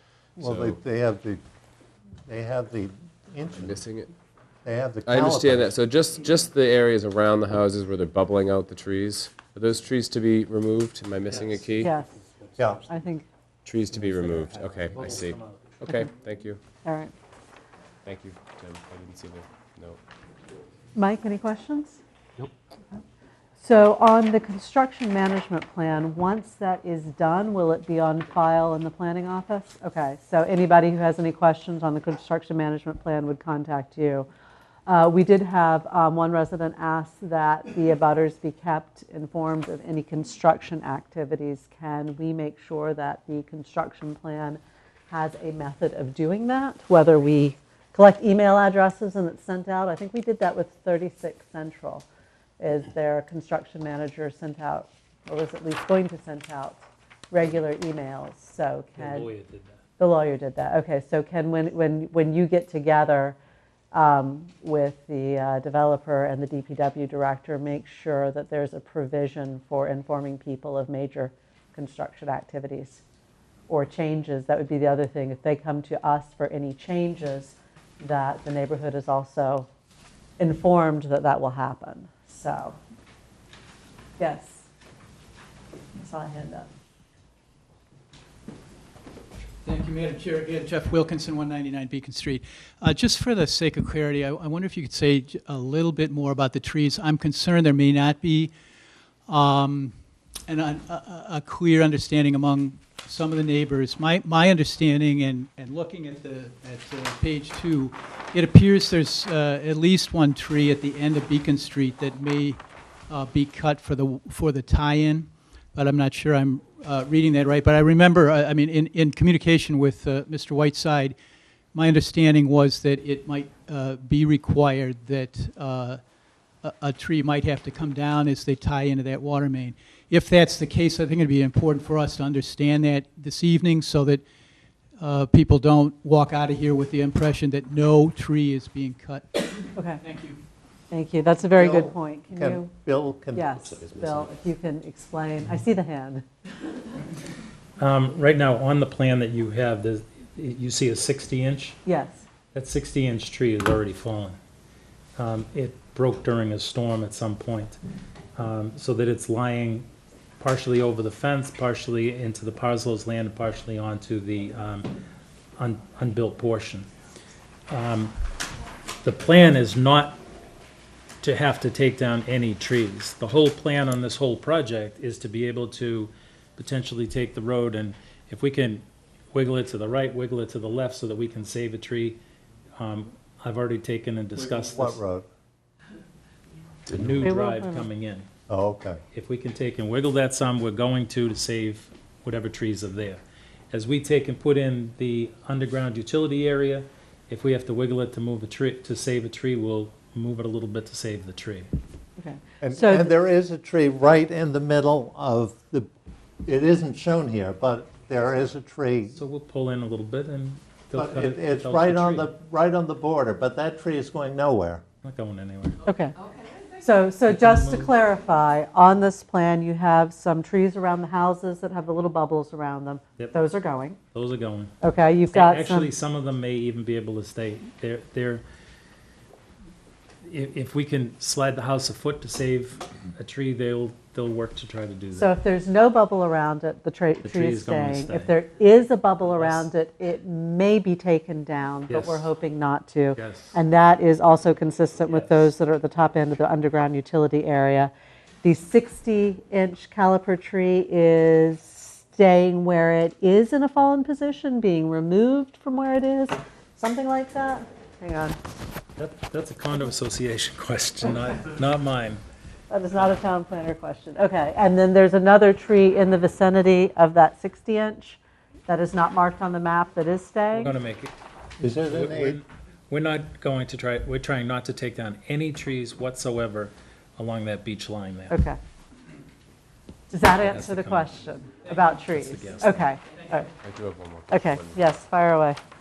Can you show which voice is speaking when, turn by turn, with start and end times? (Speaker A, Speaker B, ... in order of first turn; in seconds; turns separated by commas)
Speaker A: 0.4-0.8, Speaker B: 0.4-1.4, Speaker B: 2.3-3.8, Speaker A: 3.5-4.1, Speaker B: 4.6-5.7, Speaker A: 5.0-11.9, Speaker C: 11.3-12.6, Speaker D: 11.8-12.1, Speaker D: 12.8-13.2, Speaker A: 13.6-16.6, Speaker C: 13.9-15.8, Speaker D: 16.8-17.1, Speaker A: 18.0-20.0, Speaker D: 20.9-22.0, Speaker D: 23.6-34.3, Speaker D: 34.9-44.6, Speaker D: 45.1-52.0, Speaker D: 52.6-59.3, Speaker C: 59.0-59.8, Speaker D: 60.0-63.4, Speaker D: 63.9-73.0, Speaker D: 73.7-79.7, Speaker D: 80.4-82.8, Speaker D: 84.2-84.7, Speaker D: 86.0-86.7, Speaker E: 89.6-98.5, Speaker E: 99.3-99.9, Speaker E: 100.5-112.6, Speaker E: 113.1-121.1, Speaker E: 121.7-126.0, Speaker E: 126.8-134.2, Speaker E: 135.0-139.4, Speaker D: 139.7-140.0, Speaker E: 140.0-140.3, Speaker D: 140.9-142.7, Speaker B: 141.5-144.3, Speaker D: 143.3-146.2, Speaker C: 147.8-151.8, Speaker D: 151.8-152.2, Speaker C: 152.5-154.3, Speaker C: 155.2-157.8, Speaker C: 158.4-159.9, Speaker C: 160.4-164.9, Speaker C: 165.6-166.9, Speaker C: 167.7-168.1, Speaker C: 169.0-170.2, Speaker C: 171.2-182.2, Speaker C: 182.8-185.0, Speaker B: 184.3-185.2, Speaker C: 186.9-188.3, Speaker D: 187.2-187.9, Speaker B: 188.5-189.0, Speaker C: 189.1-193.2, Speaker C: 193.7-201.7, Speaker D: 202.2-203.1, Speaker B: 202.6-205.9, Speaker B: 206.4-209.2, Speaker C: 209.1-212.3, Speaker B: 210.9-214.8, Speaker C: 215.0-215.8, Speaker D: 215.8-216.2, Speaker D: 216.8-224.0, Speaker C: 217.3-217.9, Speaker C: 224.1-224.7, Speaker D: 224.8-225.9, Speaker C: 225.3-228.4, Speaker C: 230.2-235.3, Speaker D: 235.1-247.9, Speaker C: 237.2-238.3, Speaker C: 239.3-239.7, Speaker C: 241.9-242.3, Speaker C: 243.2-243.6, Speaker C: 245.1-245.4, Speaker D: 248.4-258.4, Speaker C: 259.0-262.2, Speaker D: 262.7-270.7, Speaker C: 270.6-271.1, Speaker B: 271.6-272.4, Speaker C: 271.7-278.4, Speaker D: 278.3-278.6, Speaker D: 280.1-283.5, Speaker C: 280.4-281.1, Speaker C: 282.1-282.8, Speaker A: 283.6-284.8, Speaker D: 284.3-285.6